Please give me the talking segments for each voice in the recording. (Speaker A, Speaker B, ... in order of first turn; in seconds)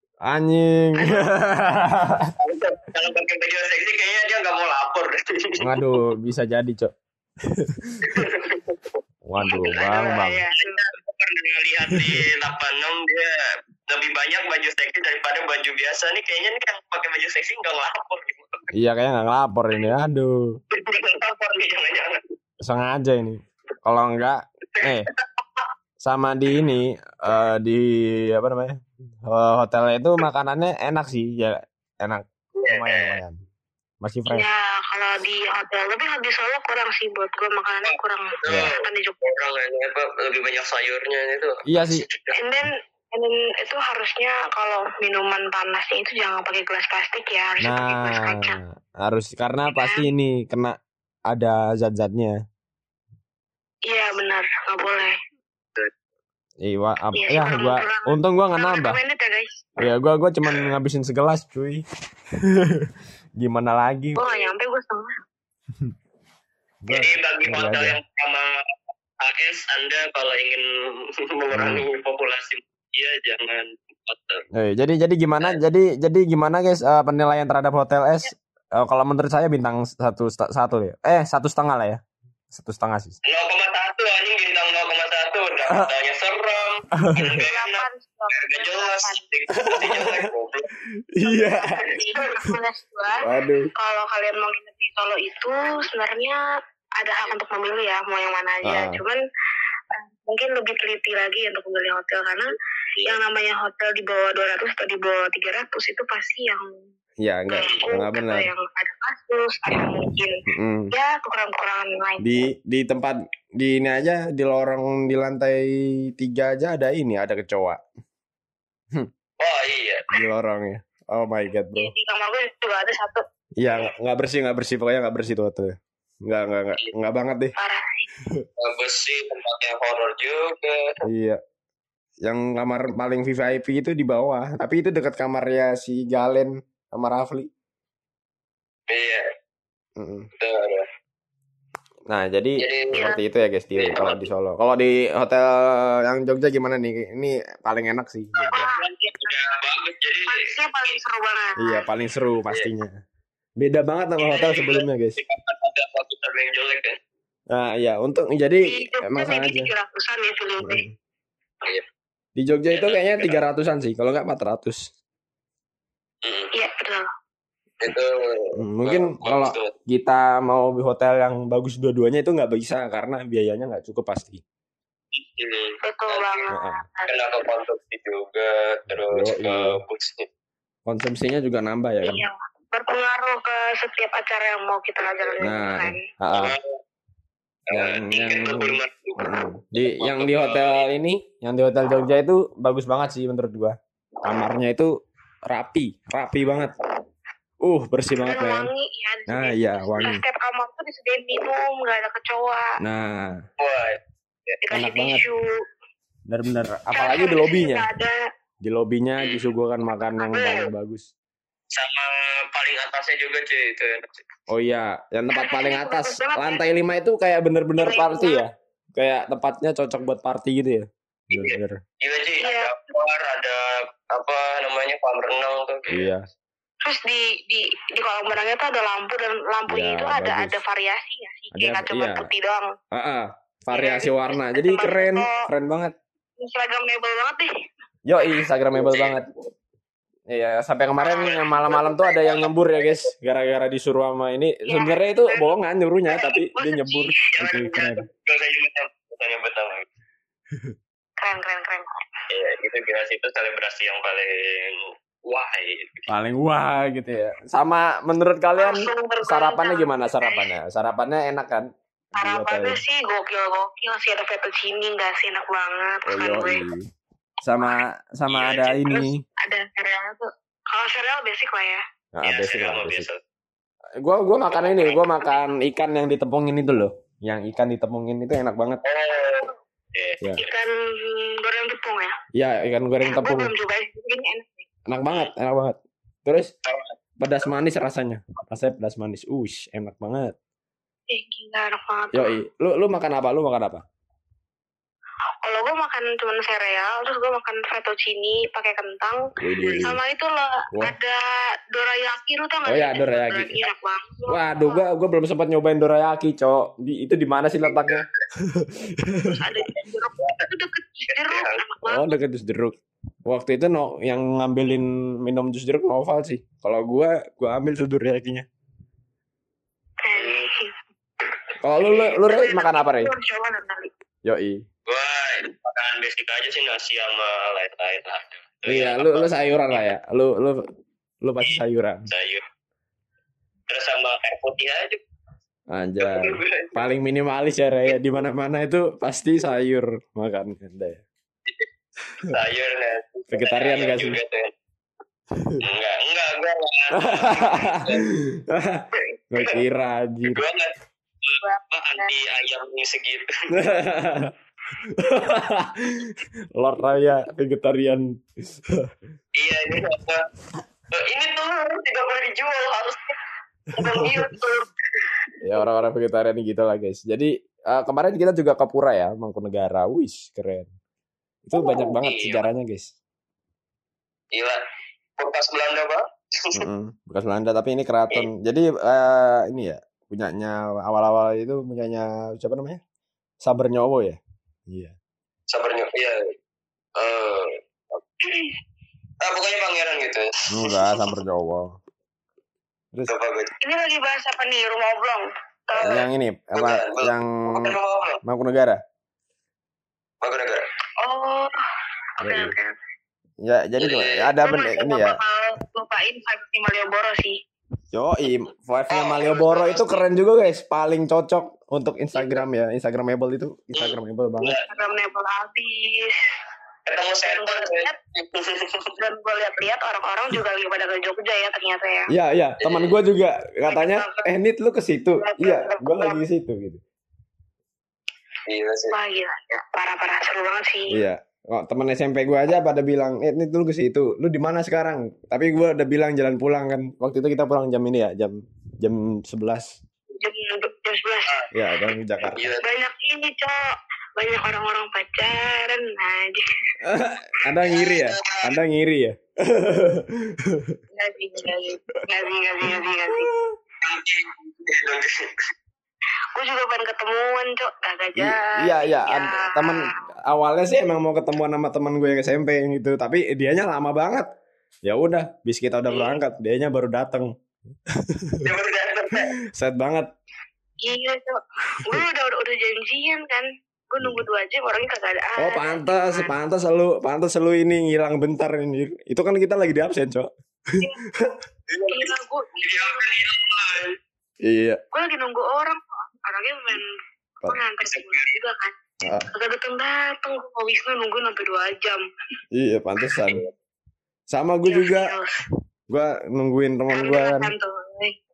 Speaker A: 0.2-2.3, 5.6-6.9, 7.4-8.3, 9.3-10.4, 11.9-12.2, 18.7-20.5, 22.6-25.1, 26.0-33.4, 34.0-34.5, 38.5-38.7, 41.7-42.0, 47.6-50.8, 51.3-52.4, 56.6-59.0, 59.8-61.8, 62.4-64.2, 66.8-68.0, 71.5-71.8, 74.5-82.0, 82.5-83.2, 87.0-87.4, 89.6-90.3, 91.1-91.9, 93.2-93.7, 98.7-99.0, 107.2-108.5, 110.5-110.9, 112.2-117.8, 120.1-121.9, 123.6-127.5, 131.0-131.4, 132.2-137.5, 140.0-140.3, 142.1-148.7, 151.6-153.0, 153.6-155.2, 157.5-159.7, 160.6-160.9, 162.4-164.8, 168.6-174.4, 176.5-176.8, 178.9-179.8, 180.9-182.2, 185.4-186.5, 187.7-194.9, 195.5-196.8, 197.6-198.7, 199.3-200.2, 202.8-203.4, 204.7-205.2, 206.3-207.9, 208.6-211.1, 214.5-221.8, 225.9-226.2, 229.7-230.6, 231.5-232.3, 232.9-235.9, 238.1-239.3, 240.3-248.0, 256.1-262.8, 266.1-266.9, 267.4-269.2, 272.1-273.1, 274.0-278.8, 282.4-283.5, 284.9-286.5, 287.2-290.4, 292.1-293.8, 299.4-300.0, 302.7-303.7, 304.3-309.6, 311.9-312.8, 313.3-318.5, 321.6-323.1, 324.2-324.6, 328.6-330.6, 331.2-332.1, 335.7-341.0, 343.3-344.2, 345.3-345.7, 346.9-350.4, 353.5-354.3, 354.8-358.9, 365.4-370.7, 371.5-372.9, 376.6-382.8, 383.4-384.9, 390.5-391.8, 395.8-398.8, 402.2-402.5, 403.4-405.2, 407.9-414.6, 422.1-426.8, 430.9-439.8, 441.5-442.6, 446.8-450.8, 452.6-453.6, 458.1-464.3, 464.9-467.3, 467.9-468.5, 469.1-470.1, 475.4-481.4, 484.4-484.8, 489.0-489.3, 492.5-493.4, 494.3-495.1, 495.9-497.5
Speaker B: 1.0-1.2, 9.4-10.9, 34.3-39.2, 42.4-48.6, 49.7-50.1, 53.9-55.1, 57.2-59.6, 64.2-65.1, 87.4-89.2, 91.3-93.2, 93.8-96.4, 97.0-99.2, 99.9-102.5, 103.1-106.7, 107.5-110.4, 110.9-112.4, 121.8-123.2, 127.6-128.1, 142.9-143.2, 148.5-149.5, 150.3-151.9, 158.7-160.9, 166.5-167.1, 175.8-177.1, 182.0-186.0, 198.2-202.7, 204.6-205.4, 206.9-208.2, 210.2-210.7, 215.3-216.6, 217.8-218.4, 222.4-222.7, 226.8-232.7, 233.7-235.4, 236.4-237.5, 241.0-241.7, 244.7-245.5, 246.2-247.1, 251.2-252.0, 258.6-260.5, 262.2-266.6, 268.9-271.8, 280.4-282.1, 283.0-284.6, 291.1-292.4, 295.4-301.2, 301.7-304.8, 309.2-312.1, 320.0-320.7, 322.2-323.9, 351.4-352.1, 364.0-364.5, 393.6-396.0, 401.0-401.6, 402.2-402.8, 404.4-407.4, 414.7-416.2, 417.3-418.0, 419.0-422.1, 423.7-424.3, 425.2-426.2, 428.9-431.0, 440.2-441.4, 442.6-443.6, 444.2-446.5, 450.9-453.3, 456.4-459.9, 470.8-476.3, 481.9-483.2, 484.9-486.8, 487.5-488.7, 489.3-492.0, 494.6-495.4, 496.9-498.1
Speaker C: 2.4-5.8, 8.0-9.0, 9.9-13.3, 13.9-18.7, 20.7-22.3, 24.8-25.6, 32.6-33.2, 37.9-42.4, 66.9-74.4, 83.2-90.7, 119.4-120.1, 128.6-130.9, 138.9-139.3, 140.4-140.9, 142.6-143.0, 143.8-144.3, 148.4-151.0, 154.2-157.0, 162.7-163.4, 166.2-166.5, 167.8-169.7, 175.1-176.4, 177.1-180.3, 185.2-185.5, 186.3-186.7, 187.7-190.9, 203.6-204.6, 209.2-209.4, 211.7-214.2, 221.3-226.1, 238.7-239.2, 241.2-243.1, 247.4-249.9, 252.3-256.1, 268.3-268.9, 272.2-273.2, 274.5-275.0, 278.8-280.3, 286.6-287.0, 307.7-308.1, 310.2-310.5, 311.1-311.6, 320.1-320.4, 324.9-329.3, 332.1-332.4, 333.7-335.0, 336.0-336.8, 342.2-344.5, 345.6-348.1, 350.3-353.4, 359.4-360.2, 360.9-363.1, 363.7-364.6, 372.0-372.5, 374.3-374.6, 375.2-376.7, 385.5-386.2, 387.0-387.6, 388.2-388.5, 389.2-391.0, 393.1-393.5, 396.6-398.2, 400.2-400.6, 403.8-404.3, 408.9-410.0, 413.7-414.7, 416.9-418.9, 422.6-423.0, 428.5-429.0, 442.2-442.7, 447.6-448.6, 453.8-455.5, 468.4-469.4, 481.7-483.9, 487.9-488.3